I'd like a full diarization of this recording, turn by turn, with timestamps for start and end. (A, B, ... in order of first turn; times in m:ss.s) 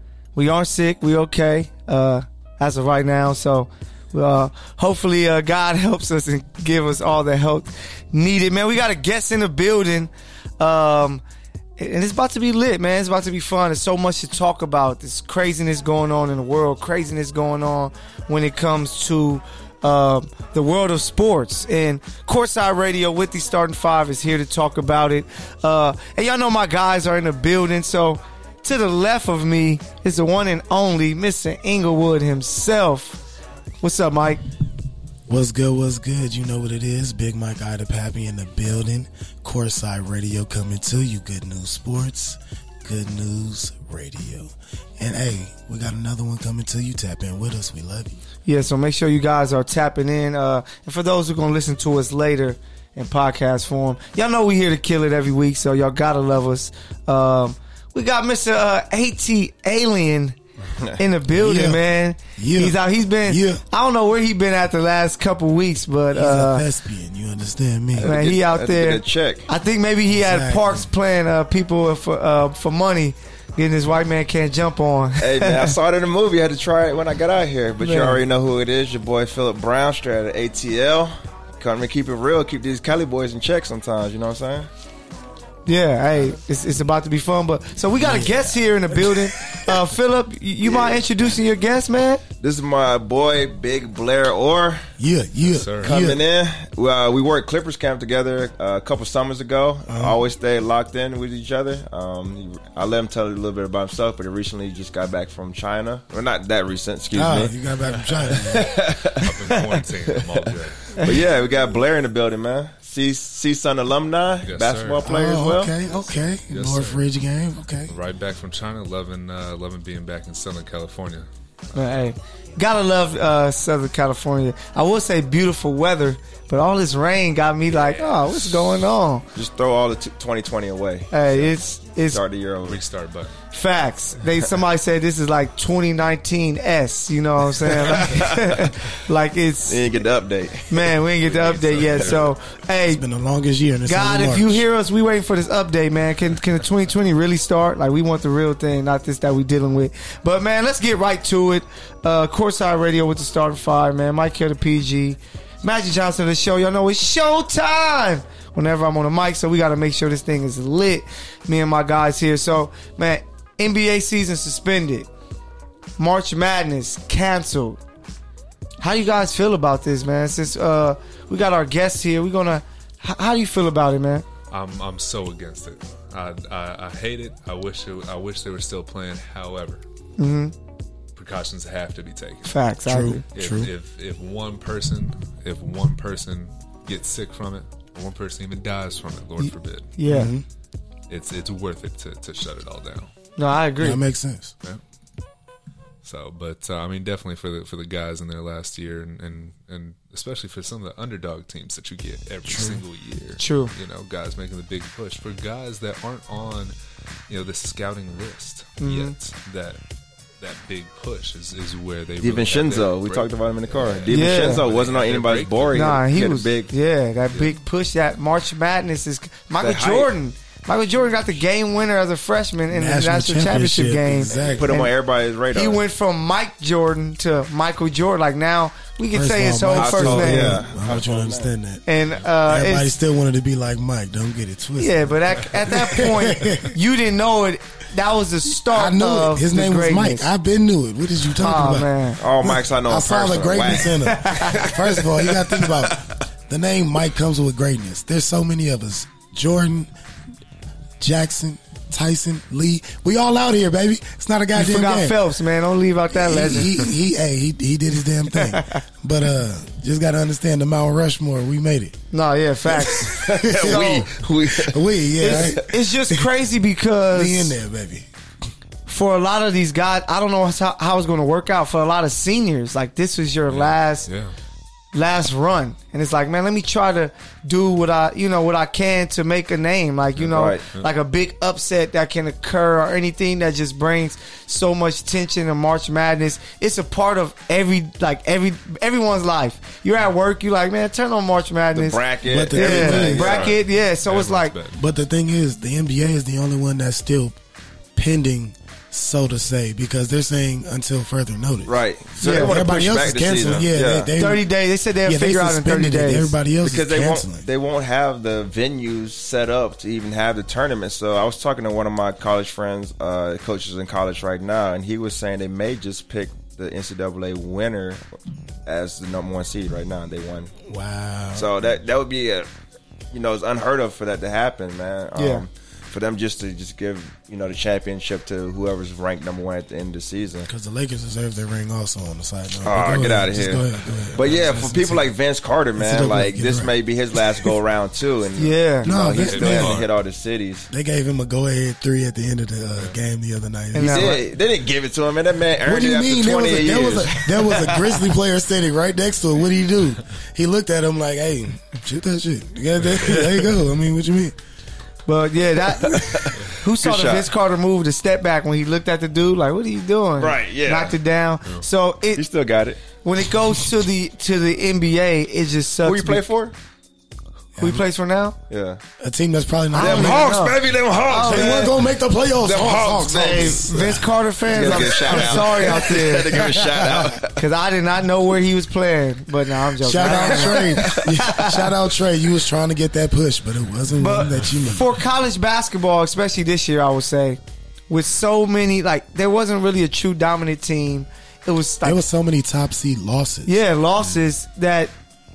0:00.3-0:11.2 A
0:11.8-0:33.2 A
0:33.8-0:34.4 A
0:35.3-0:48.2 B
0:48.4-1:00.4 A
1:01.0-1:06.6 A
1:01.3-1:01.8 B
1:02.4-1:03.6 B
1:06.1-1:08.1 B
1:07.9-1:09.5 C
1:08.0-1:15.7 A
1:10.1-1:10.9 B
1:15.2-1:24.7 C
1:17.8-1:18.2 A
1:25.6-1:32.2 A
1:28.0-1:29.8 B
1:30.6-1:31.0 C
1:32.4-1:34.8 C
1:35.0-1:36.2 B
1:35.4-1:36.0 D
1:35.8-1:47.5 C
1:39.9-1:40.2 B
1:47.1-1:48.8 B
1:48.1-1:49.4 C
1:49.1-1:51.0 D
1:50.9-1:55.7 C
1:54.4-1:55.0 D
1:55.0-1:57.9 B
1:56.5-1:57.0 D
1:57.9-2:01.3 D
2:01.7-2:09.2 A
2:07.7-2:08.8 D
2:09.3-2:11.6 C
2:11.1-2:12.2 A
2:12.1-2:12.8 C
2:12.6-2:13.3 D
2:13.5-2:19.8 A
2:17.7-2:18.7 C
2:19.7-2:20.9 C
2:20.7-2:23.0 A
2:21.2-2:22.3 D
2:22.0-2:22.2 C
2:22.8-2:24.6 B
2:23.8-2:45.1 A
2:46.0-2:47.8 A
2:48.8-2:54.2 A
2:54.5-2:59.8 D
3:00.2-3:00.5 A
3:01.1-3:02.5 D
3:02.4-3:03.2 A
3:02.8-3:03.7 B
3:03.3-3:09.9 D
3:09.4-3:10.3 A
3:10.0-3:10.4 B
3:11.1-3:13.1 D
3:13.4-3:14.0 A
3:13.8-3:14.5 B
3:16.0-3:26.7 D
3:22.4-3:22.8 B
3:23.4-3:23.7 A
3:27.3-3:29.8 D
3:28.8-3:29.1 A
3:30.4-3:36.0 D
3:32.2-3:36.7 C
3:34.1-3:34.6 A
3:35.7-3:44.9 A
3:39.6-3:40.1 C
3:42.7-3:44.9 B
3:44.3-3:44.6 D
3:44.6-3:45.8 C
3:45.5-3:50.6 A
3:49.1-3:51.8 B
3:49.8-3:51.5 C
3:51.8-3:52.9 A
3:52.4-3:55.0 B
3:54.8-4:00.3 A
3:55.7-3:56.7 B
3:58.6-4:09.9 B
4:01.4-4:02.2 A
4:02.2-4:06.0 C
4:04.0-4:04.7 A
4:11.0-4:15.2 B
4:14.5-4:16.9 A
4:16.1-4:22.0 B
4:18.3-4:18.8 A
4:22.1-4:24.0 A
4:22.7-4:25.6 C
4:22.8-4:26.3 B
4:25.2-4:27.6 A
4:27.1-4:28.1 B
4:28.9-4:34.1 A
4:33.5-4:34.3 D
4:34.9-4:54.5 A
4:40.1-4:40.9 D
4:40.3-4:40.6 C
4:51.7-4:53.6 C
4:52.2-4:53.4 B
4:53.2-4:54.8 D
4:54.7-4:57.4 B
4:58.0-5:04.4 B
5:01.6-5:04.1 C
5:02.2-5:02.6 A
5:04.2-5:06.3 A
5:05.0-5:07.4 B
5:06.6-5:18.0 C
5:18.6-5:20.5 C
5:20.6-5:21.5 B
5:21.3-5:22.5 C
5:23.1-5:30.5 C
5:25.2-5:25.4 A
5:30.5-5:35.1 B
5:32.6-5:40.7 C
5:35.8-5:37.5 B
5:38.4-5:38.9 A
5:38.8-5:39.8 B
5:39.2-5:39.9 D
5:40.7-5:44.1 B
5:43.7-5:44.2 A
5:43.8-5:47.3 C
5:45.6-5:54.3 B
5:47.6-5:47.9 A
5:55.0-6:02.2 A
5:55.8-5:57.3 C
6:00.2-6:01.0 C
6:02.1-6:02.8 C
6:03.0-6:06.2 A
6:05.8-6:06.5 C
6:07.6-6:07.8 B
6:07.6-6:08.4 A
6:08.5-6:08.8 C
6:09.0-6:10.4 B
6:09.7-6:11.7 A
6:09.8-6:11.8 C
6:11.1-6:17.2 B
6:12.4-6:13.7 C
6:13.2-6:16.5 A
6:14.5-6:17.4 C
6:17.2-6:21.7 A
6:19.8-6:24.9 B
6:20.0-6:21.1 C
6:24.0-6:27.4 A
6:27.9-6:32.0 A
6:31.8-6:33.6 B
6:33.4-6:34.9 A